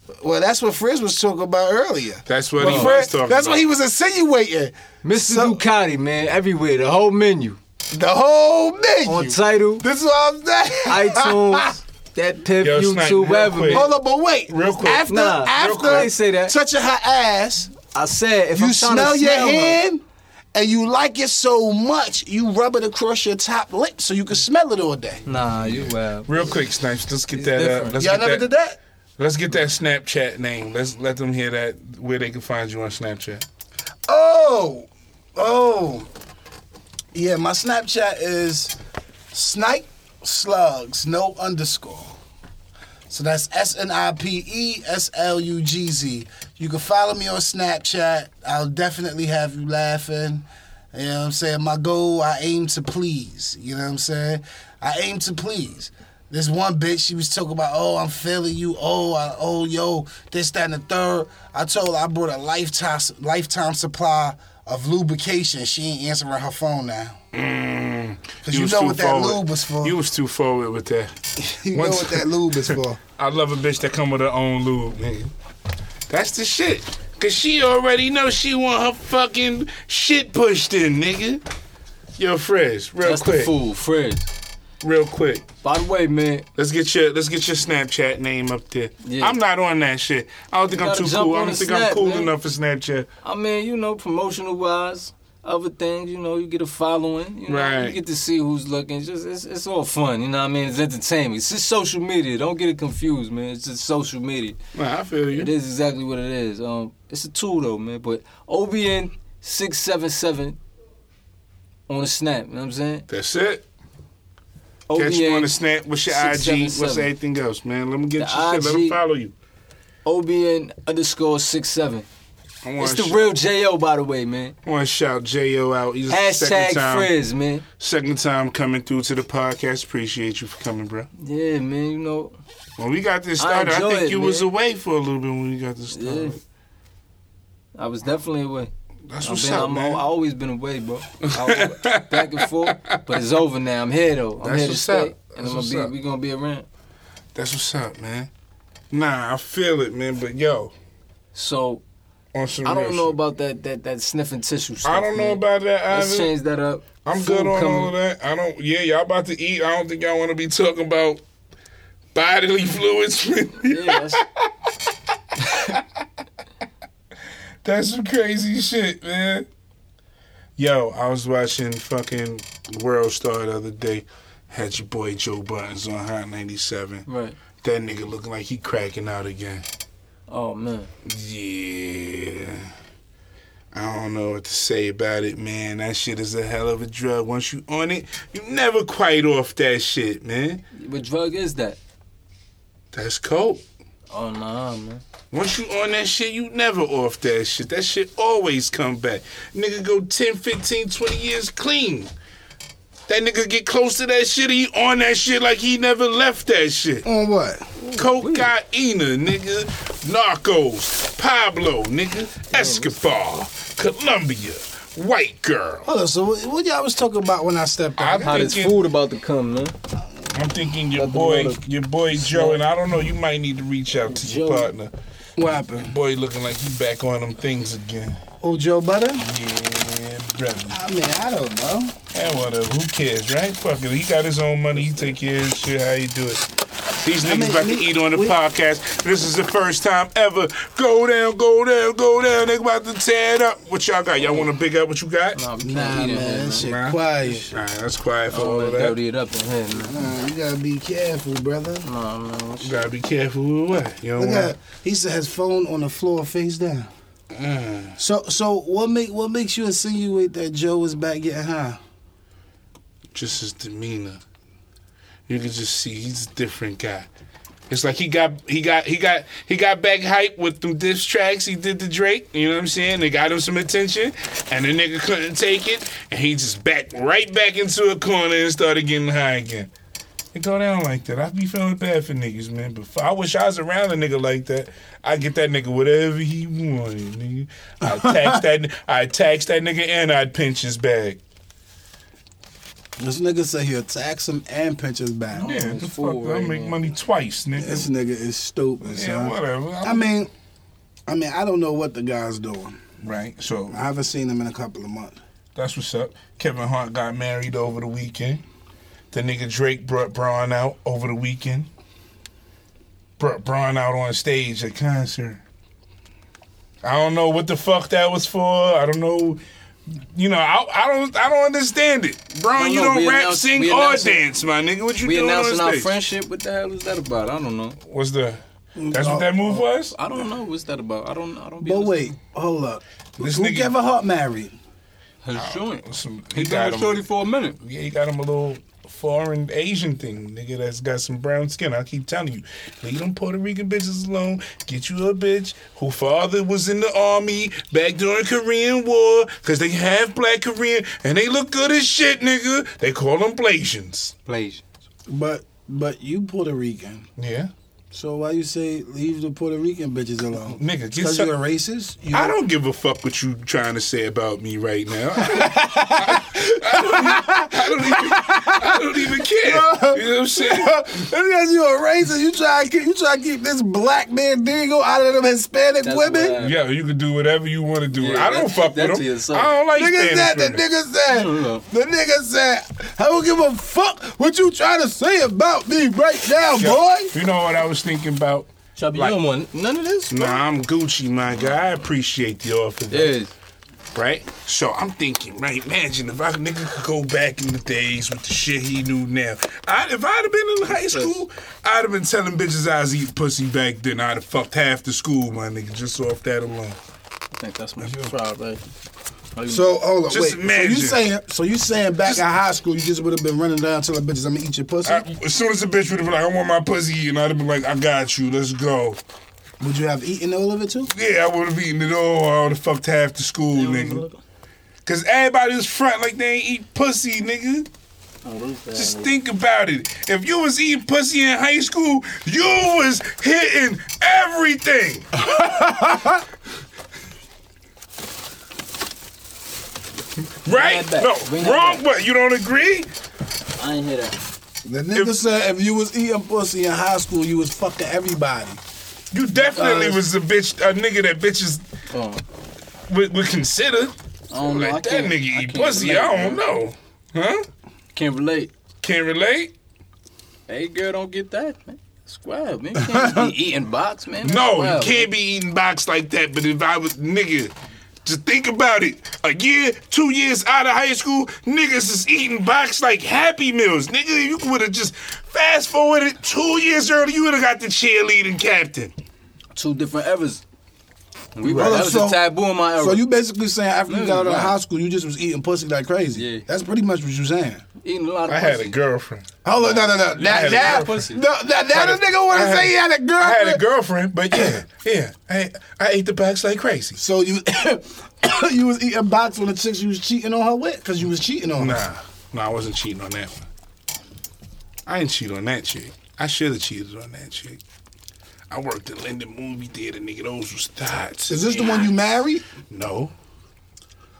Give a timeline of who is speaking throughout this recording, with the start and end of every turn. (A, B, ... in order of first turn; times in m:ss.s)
0:00.2-0:05.6 A
0:02.3-0:03.6 B
0:02.6-0:03.0 C
0:05.0-0:07.6 C
0:07.9-0:11.7 A
0:09.1-0:09.8 C
0:10.9-0:13.9 C
0:12.6-0:13.9 B
0:13.7-0:17.7 A
0:14.5-0:16.1 B
0:15.1-0:16.6 C
0:17.9-0:19.8 C
0:18.5-0:20.0 A
0:20.5-0:25.2 A
0:25.3-0:26.6 C
0:25.6-0:28.5 B
0:27.3-0:28.0 C
0:28.0-0:28.8 A
0:29.2-0:33.4 B
0:34.1-0:36.1 A
0:37.1-0:38.8 A
0:39.3-0:42.2 A
0:43.1-1:07.2 A
1:07.3-1:11.1 B
1:08.4-1:10.0 A
1:11.4-1:13.0 A
1:11.7-1:15.3 B
1:16.1-1:21.4 B
1:22.2-1:23.5 B
1:23.0-1:24.3 C
1:24.8-1:25.4 B
1:25.6-1:26.5 C
1:26.6-1:33.1 B
1:29.0-1:29.4 C
1:30.7-1:32.3 C
1:33.2-1:44.6 C
1:37.5-1:38.0 B
1:44.8-1:45.5 B
1:45.3-1:50.6 C
1:51.9-1:53.1 C
1:53.1-1:53.6 B
1:54.9-1:55.5 C
1:55.0-1:59.3 B
1:56.1-1:57.1 C
1:58.2-1:59.0 C
2:00.0-2:02.1 C
2:02.6-2:03.3 B
2:02.8-2:04.6 C
2:04.6-2:07.1 B
2:06.1-2:07.6 C
2:07.8-2:11.1 B
2:11.2-2:12.4 C
2:12.8-2:16.4 B
2:13.4-2:14.5 C
2:15.9-2:16.4 C
2:17.8-2:18.7 C
2:19.1-2:20.0 B
2:19.2-2:26.7 C
2:21.2-2:23.2 B
2:24.4-2:25.9 B
2:27.4-2:28.3 B
2:28.9-2:30.7 B
2:31.3-2:31.8 C
2:32.3-2:33.2 B
2:32.6-2:37.9 C
2:34.8-2:36.3 B
2:37.0-2:41.2 B
2:42.1-2:44.5 B
2:43.6-2:44.2 C
2:45.4-2:45.8 B
2:47.6-2:49.5 B
2:50.6-2:57.0 B
2:57.1-2:57.4 C
2:57.6-2:59.6 B
3:00.3-3:00.9 C
3:01.0-3:02.7 B
3:03.7-3:10.6 B
3:10.7-3:11.8 C
3:12.9-3:13.6 B
3:14.1-3:15.0 C
3:15.3-3:22.1 B
3:23.1-3:27.1 B
3:27.0-3:27.7 A
3:27.8-3:35.9 B
3:27.9-3:28.5 C
3:32.5-3:32.9 C
3:35.8-3:38.5 A
3:38.0-3:38.8 B
3:38.2-3:39.8 C
3:40.3-3:44.9 B
3:40.9-3:41.6 C
3:42.1-3:42.6 C
3:44.1-3:44.7 C
3:45.4-3:46.0 A
3:45.8-3:48.2 B
3:48.4-3:49.2 A
3:49.2-3:50.8 B
3:50.7-3:52.0 A
3:52.1-3:56.4 B
3:57.0-4:05.4 B
3:57.2-3:58.4 A
4:05.4-4:06.7 C
4:05.6-4:07.6 A
4:06.6-4:09.0 B
4:08.3-4:10.1 C
4:09.8-4:11.9 A
4:11.8-4:12.9 C
4:12.6-4:14.5 B
4:14.2-4:16.9 A
4:17.3-4:18.0 B
4:18.0-4:21.8 A
4:23.1-4:24.2 B
4:25.3-4:27.1 B
4:27.7-4:39.7 B
4:40.3-4:51.2 B
4:47.8-4:48.4 A
4:53.0-4:55.6 A
4:55.4-4:56.8 C
4:55.4-4:57.9 B
4:57.6-5:00.3 A
4:58.8-5:00.1 B
5:01.1-5:02.8 A
5:03.0-5:03.8 B
5:03.7-5:05.2 A
5:05.6-5:08.4 B
5:09.1-5:11.7 B
5:13.2-5:15.4 B
5:16.8-5:19.4 B
5:20.1-5:25.9 B
5:22.5-5:24.2 C
5:25.0-5:27.8 C
5:27.8-5:30.0 B
5:28.8-5:29.3 A
5:29.5-5:32.2 C
5:31.6-5:34.6 A
5:33.2-5:33.7 B
5:35.2-5:35.8 C
5:35.3-5:37.1 B
5:36.3-5:37.6 C
5:37.6-5:54.1 B
5:54.3-5:54.6 C
5:55.1-5:57.1 A
5:57.2-5:57.5 B
5:57.9-6:02.4 A
6:00.5-6:01.3 B
6:02.1-6:10.8 B
6:05.2-6:16.4 A
6:15.8-6:16.6 C
6:16.4-6:20.6 B
6:18.0-6:19.5 C
6:19.7-6:27.2 A
6:21.1-6:21.6 C
6:26.5-6:29.2 B
6:28.8-6:30.4 C
6:30.1-6:33.2 B
6:32.9-6:33.3 C
6:33.9-6:46.8 B
6:40.7-6:41.2 C
6:47.4-6:48.6 C
6:49.4-6:49.7 C
6:49.5-6:55.0 A
6:50.1-6:51.0 B
6:54.8-6:59.0 B
6:59.6-7:00.9 A
7:00.9-7:04.0 B
7:03.5-7:04.2 C
7:04.9-7:07.7 B
7:08.2-7:09.1 C
7:08.7-7:15.3 B
7:15.2-7:16.2 A
7:20.4-7:22.9 B
7:20.5-7:21.9 C
7:23.6-7:24.2 C
7:24.6-7:28.6 A
7:29.1-7:31.6 B
7:29.4-7:30.0 C
7:31.9-7:32.2 C
7:32.9-7:37.5 B
7:34.3-7:36.4 C
7:37.9-7:38.5 C
7:38.8-7:39.5 B
7:40.5-7:45.1 C
7:42.8-7:43.3 A
7:44.2-7:47.5 B
7:48.0-7:58.9 B
7:59.6-8:00.4 C
8:01.4-8:03.0 C
8:01.4-8:02.2 A
8:01.5-8:01.8 B
8:02.8-8:07.6 A
8:03.9-8:04.6 C
8:06.1-8:06.5 C
8:07.8-8:08.8 C
8:08.3-8:09.3 B
8:09.4-8:13.6 A
8:09.6-8:11.2 C
8:10.2-8:11.0 B
8:11.7-8:17.0 B
8:14.3-8:14.6 A
8:17.0-8:21.8 A
8:21.6-8:23.4 B
8:24.9-8:27.6 B
8:28.5-8:31.9 B
8:31.3-8:32.5 A
8:32.7-8:33.1 B